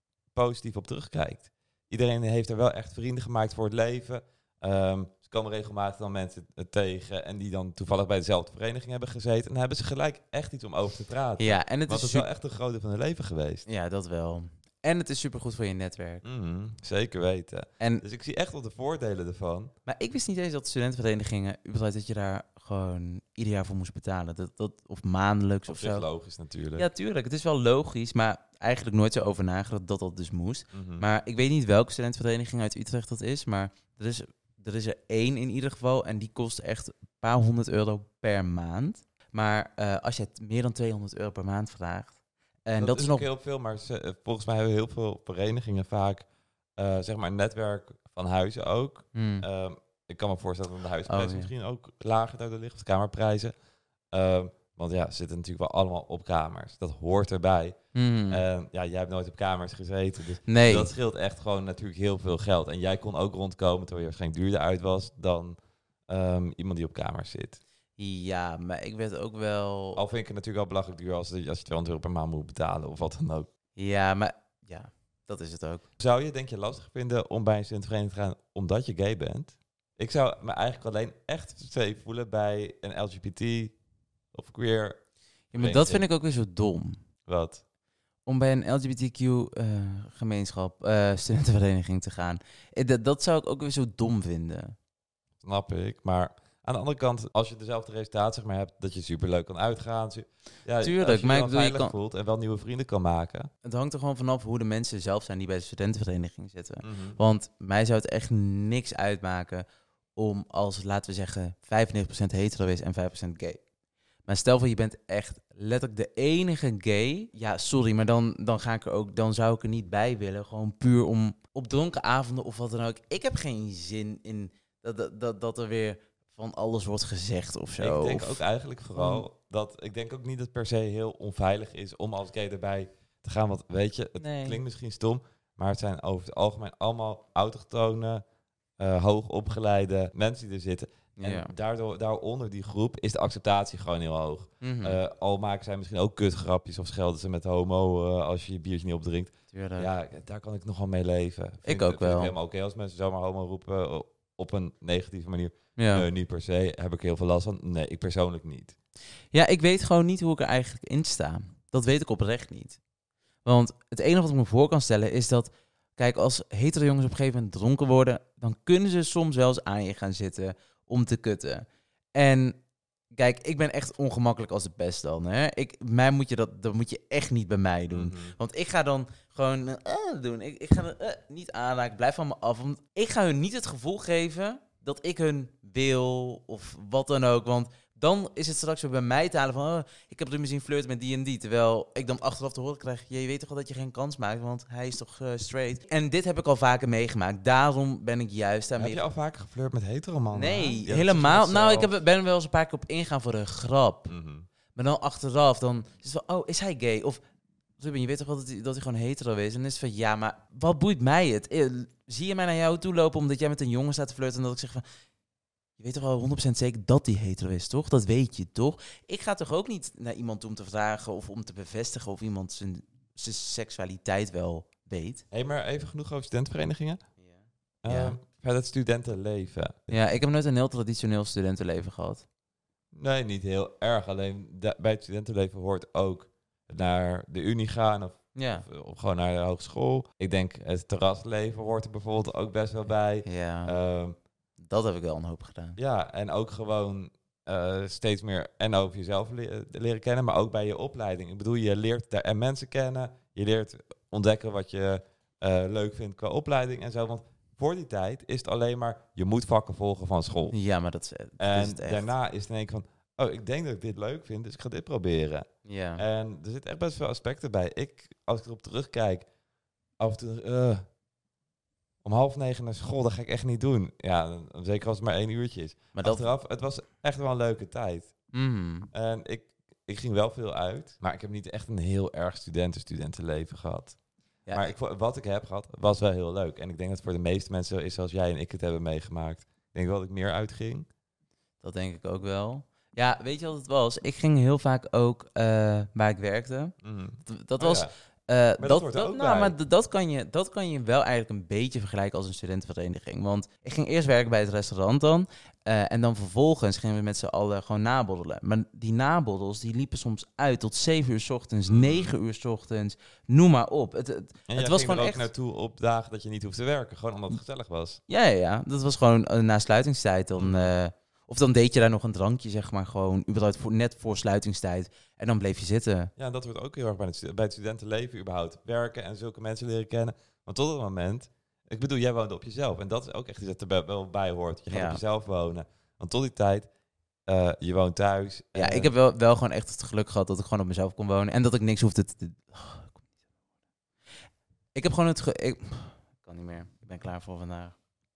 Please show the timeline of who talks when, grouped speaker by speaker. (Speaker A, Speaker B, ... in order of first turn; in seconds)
Speaker A: 0.3-13.7, 16.2-19.7, 25.7-26.9, 30.7-31.0, 42.8-46.2, 46.8-53.5, 54.1-57.8, 58.3-65.5, 66.1-67.6, 69.9-73.5, 76.0-83.7, 84.3-85.0, 85.5-86.0, 87.2-87.6, 95.4-103.5, 106.8-107.2, 127.8-138.2, 138.8-158.8, 177.9-178.3, 198.8-201.9, 204.1-204.5, 225.3-227.0, 227.8-230.0, 232.9-244.2, 245.8-260.5, 261.4-269.3, 270.0-270.8, 272.0-278.1, 278.9-284.0, 284.5-290.9, 296.8-297.9, 298.6-299.6, 311.7-312.1, 314.5-318.0, 320.4-320.7, 326.2-336.7, 337.3-338.9
Speaker B: 11.4-12.3, 13.7-16.2, 19.9-26.1, 26.8-42.1, 42.6-43.2, 49.1-49.4, 51.1-51.5, 57.9-58.4, 60.5-60.9, 68.0-70.0, 73.8-75.8, 85.5-87.0, 88.2-94.7, 100.8-101.9, 103.6-113.6, 114.3-128.4, 128.9-129.2, 134.2-134.6, 141.2-141.5, 144.6-145.0, 149.5-149.9, 151.7-152.3, 155.8-156.0, 159.3-162.8, 163.4-172.6, 173.1-199.0, 200.3-204.1, 204.7-207.2, 207.8-214.8, 215.8-225.2, 227.2-228.2, 229.9-232.2, 238.3-238.7, 243.2-243.8, 244.6-245.8, 260.5-262.1, 265.6-266.0, 275.9-276.2, 278.3-278.9, 284.5-284.7, 291.6-296.7, 297.2-315.3, 318.1-326.1, 334.7-335.0, 338.5-342.9, 344.7-347.8